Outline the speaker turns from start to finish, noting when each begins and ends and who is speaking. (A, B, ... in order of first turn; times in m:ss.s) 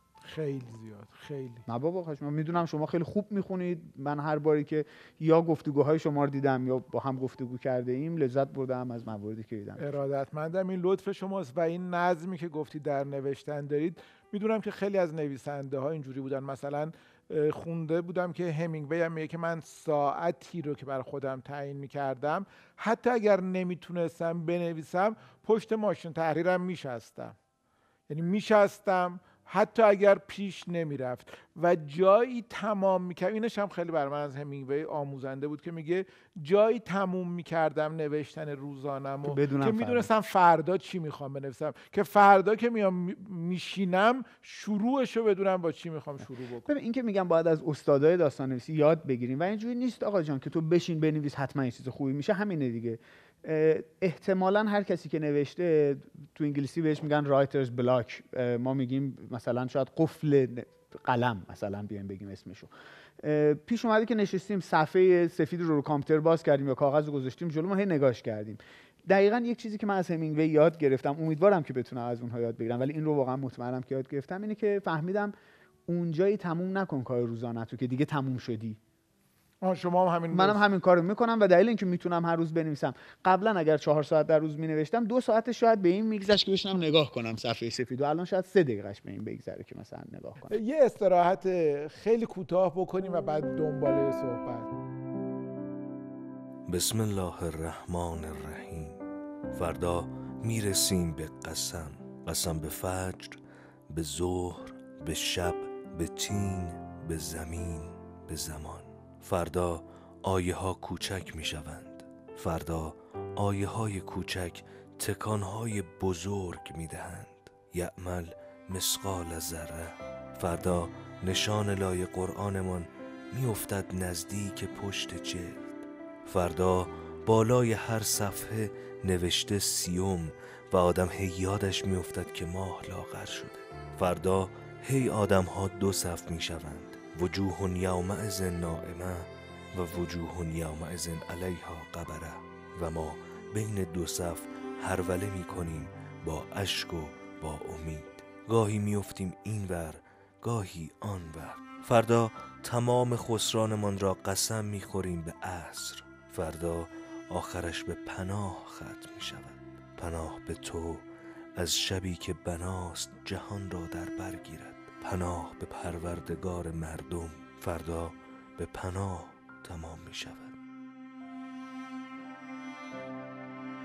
0:00.2-0:01.6 A
0:01.7-0:09.8 B
0:09.8-0:27.4 A
0:28.1-0:46.7 A
0:39.2-0:40.1 B
0:46.7-1:15.3 B
1:15.9-1:18.8 B
1:19.6-1:20.6 A
1:20.3-1:30.6 B
1:30.5-1:34.7 A
1:36.7-1:39.0 C
1:39.5-2:41.0 C
2:41.6-2:50.6 C